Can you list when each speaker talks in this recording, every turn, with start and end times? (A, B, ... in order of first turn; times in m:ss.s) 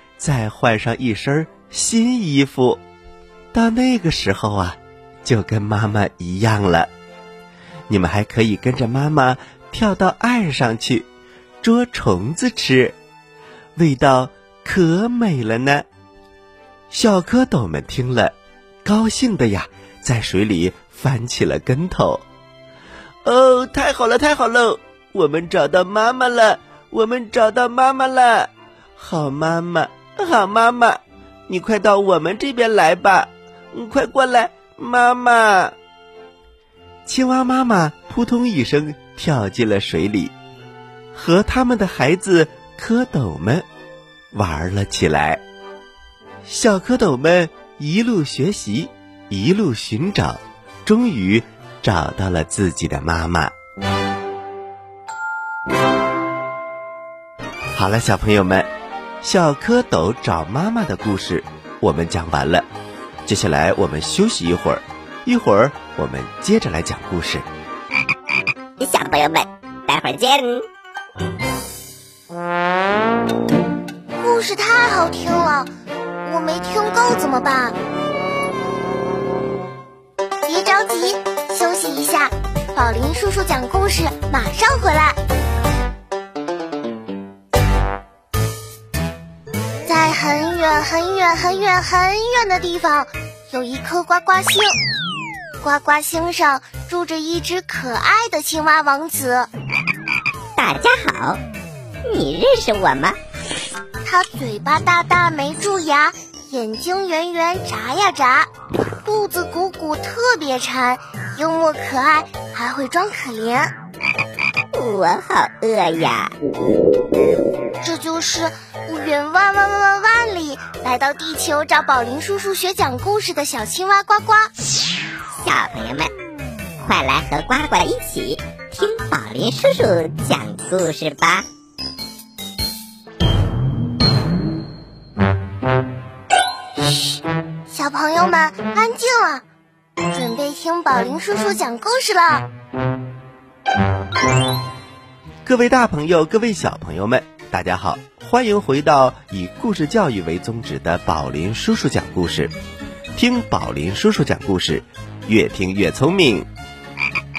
0:00.2-0:02.8 A
0:03.5-0:06.9 A
0:07.9-0:11.1 A
0:11.6-0:13.0 A
0:13.8-0:15.8 A
0:16.9-0:22.2 A
0:23.2-0:35.7 A
0:37.0-0:40.3 A
0:41.1-0:43.6 A
0:44.3-0:45.4 A
0:46.4-0:53.5 A
0:57.7-0:58.7 A
0:59.2-1:02.7 A
1:03.2-1:07.5 A
1:08.8-1:10.6 B
1:14.2-1:15.7 C
1:16.2-1:17.7 C
1:20.4-1:25.2 C
1:29.8-1:34.7 C
1:35.6-1:39.5 C
1:40.6-1:41.4 B
1:42.0-1:43.2 B
1:44.0-1:48.5 C
1:49.0-1:53.7 C
1:54.7-1:56.3 B
1:57.8-2:04.5 C
2:05.3-2:06.1 B
2:06.8-2:11.4 B
2:17.7-2:19.4 C
2:20.1-2:22.4 C
2:25.4-2:32.5 A
2:33.1-2:36.5 A